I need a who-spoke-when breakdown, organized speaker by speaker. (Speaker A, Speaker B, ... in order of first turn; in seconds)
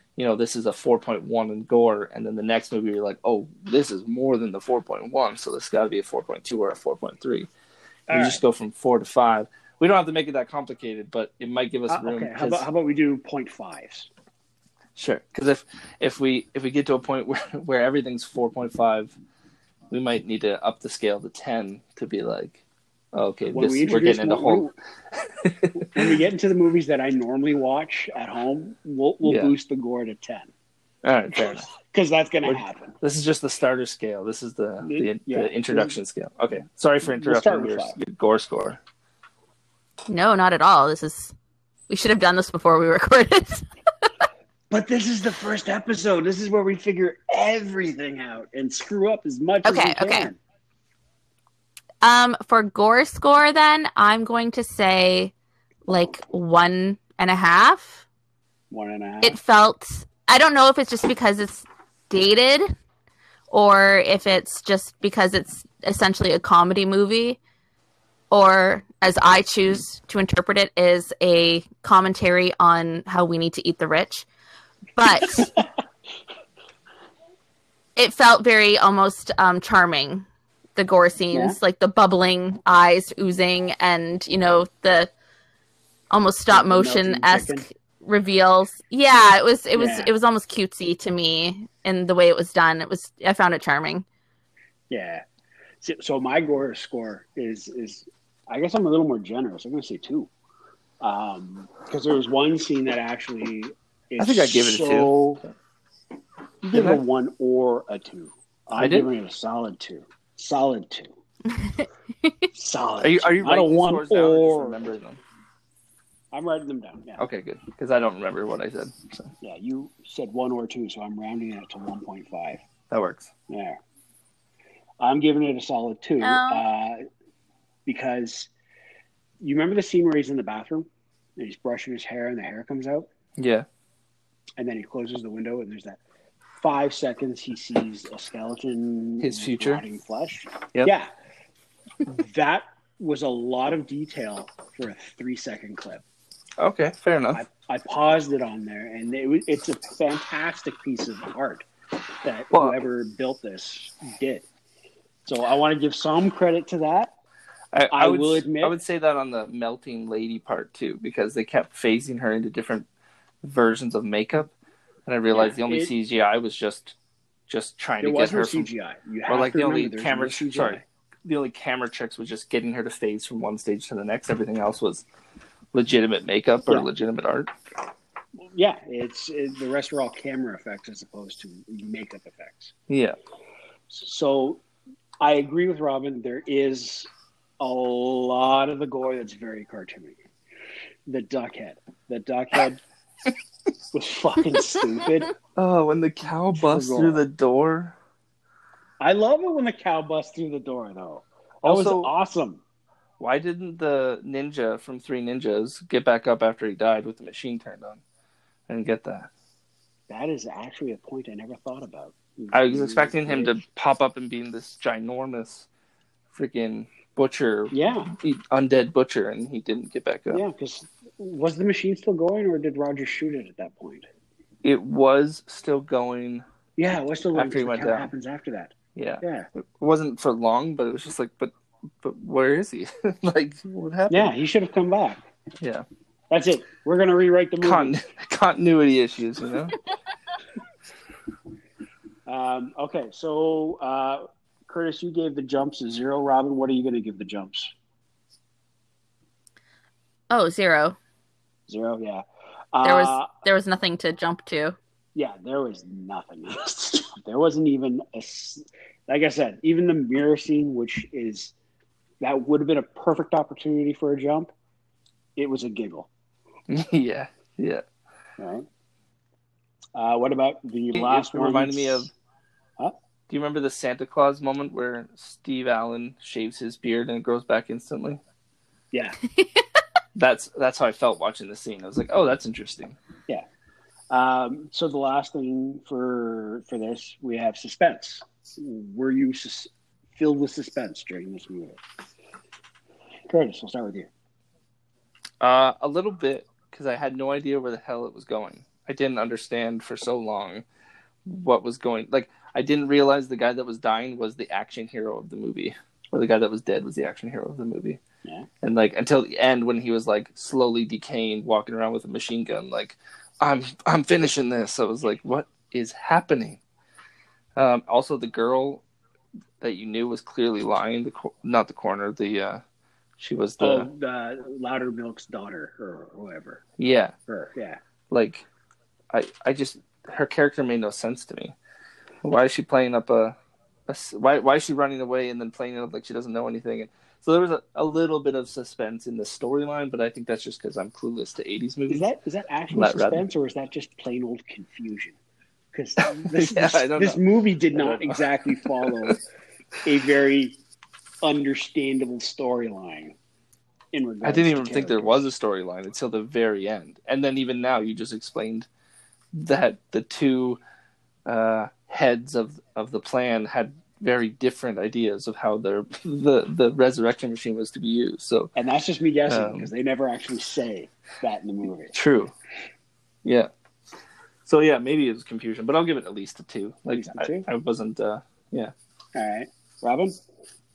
Speaker A: 0.1-7.5, 8.1-12.7, 14.9-19.1, 19.9-22.6, 23.1-26.1, 29.2-29.5, 31.0-31.7, 32.4-38.8, 104.2-105.5, 106.7-107.0, 108.8-109.1, 113.0-115.2, 117.2-119.3, 122.9-123.3, 133.4-133.7, 139.2-139.8, 146.6-147.4, 152.5-152.8, 157.7-162.9, 163.4-164.5, 165.1-166.9, 167.5-168.7, 169.3-175.0, 175.7-177.5, 182.9-183.2, 195.5-197.9, 201.6-202.1, 203.2-208.0, 208.7-209.3, 212.5-215.7, 216.3-220.4, 224.6-226.4, 227.3-228.1, 228.9-234.3, 235.6-235.8, 237.6-239.8, 266.7-267.8, 270.9-272.1, 273.3-278.2, 280.1-283.0, 295.4-300.6, 301.2-308.0, 308.6-316.6, 317.6-318.8, 319.6-322.6, 323.2-323.9, 326.8-327.1, 328.1-328.4, 329.1-331.6, 332.2-333.4, 333.9-342.1, 342.7-343.2, 346.0-349.1, 354.2-358.7, 359.3-360.6, 361.2-368.5, 369.3-369.7, 371.9-372.3, 373.2-373.5, 374.4-378.7
Speaker B: 8.1-8.4, 11.9-14.1, 23.5-24.7, 25.7-30.5, 31.3-33.0, 34.8-36.0, 37.0-38.0, 44.7-50.4, 58.7-59.4, 81.3-81.6, 86.5-87.6, 89.7-90.1, 94.9-95.2, 95.8-100.3, 101.0-105.4, 106.6-111.1, 112.5-114.9, 116.3-117.2, 119.4-122.6, 123.5-123.8, 125.0-127.0, 127.8-128.5, 129.4-133.1, 134.6-136.0, 136.6-141.1, 142.0-146.0, 147.3-151.7, 152.2-154.4, 155.2-157.1, 157.9-158.8, 165.3-165.9, 168.0-170.8, 178.4-182.7, 183.9-184.6, 185.2-190.2, 191.1-192.8, 193.9-195.3, 196.5-197.2, 199.0-202.6, 210.1-213.6, 217.7-218.1, 220.3-224.1, 226.8-229.5, 234.1-235.2, 236.3-238.0, 242.2-247.7, 251.7-253.3, 255.1-261.5, 262.2-264.5, 265.4-266.1, 268.4-268.7, 269.9-272.1, 278.9-279.2, 284.1-291.8, 293.3-294.1, 323.6-326.6, 327.3-327.8, 341.9-345.2, 345.7-349.2, 349.8-350.6, 351.2-353.1, 353.9-355.3, 368.5-371.9, 376.9-377.5, 379.1-380.1
Speaker C: 40.1-41.3, 41.9-44.1, 49.6-50.3, 52.0-55.3, 55.9-58.0, 59.2-62.7, 63.5-67.4, 68.3-74.3, 75.0-75.5, 78.0-85.1, 86.1-94.0, 111.6-111.8, 126.2-126.6, 250.3-251.0, 252.8-254.8